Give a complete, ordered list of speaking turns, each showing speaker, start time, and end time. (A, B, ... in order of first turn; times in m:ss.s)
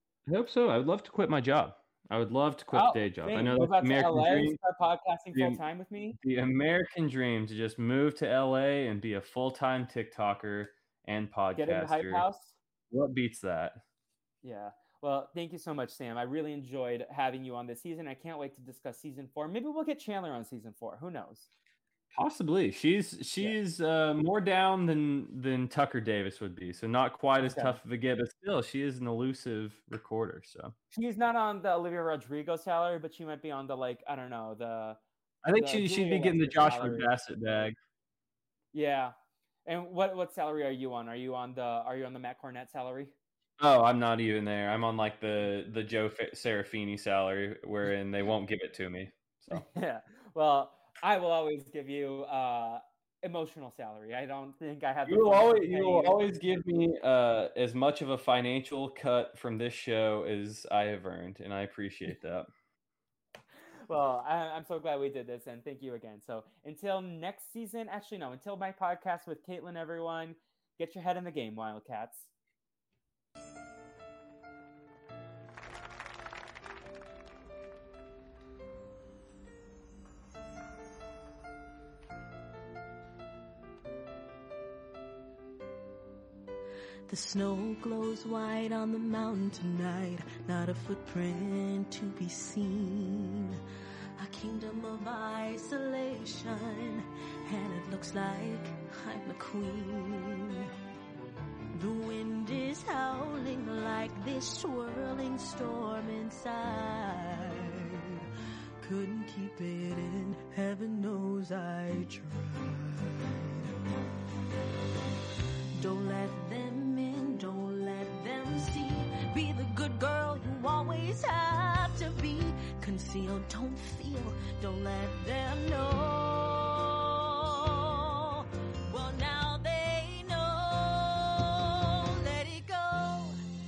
0:00.2-0:04.6 A
0:02.7-0:06.2 B
0:05.3-0:05.6 A
0:06.2-0:12.2 A
0:11.6-0:12.6 B
0:12.9-0:13.8 A
0:14.4-0:21.5 B
0:22.1-0:30.7 A
0:27.4-0:27.8 B
0:30.9-0:35.0 B
0:35.4-0:37.8 A
0:35.5-0:37.1 B
0:38.7-0:39.1 B
0:39.6-0:43.1 B
0:43.6-0:49.6 A
0:49.5-0:56.2 B
0:55.1-1:02.5 A
1:03.9-1:12.3 B
1:27.1-1:33.6 C
1:34.2-1:40.7 C
1:41.8-1:48.3 C
1:48.8-1:53.6 C
1:55.8-2:13.4 C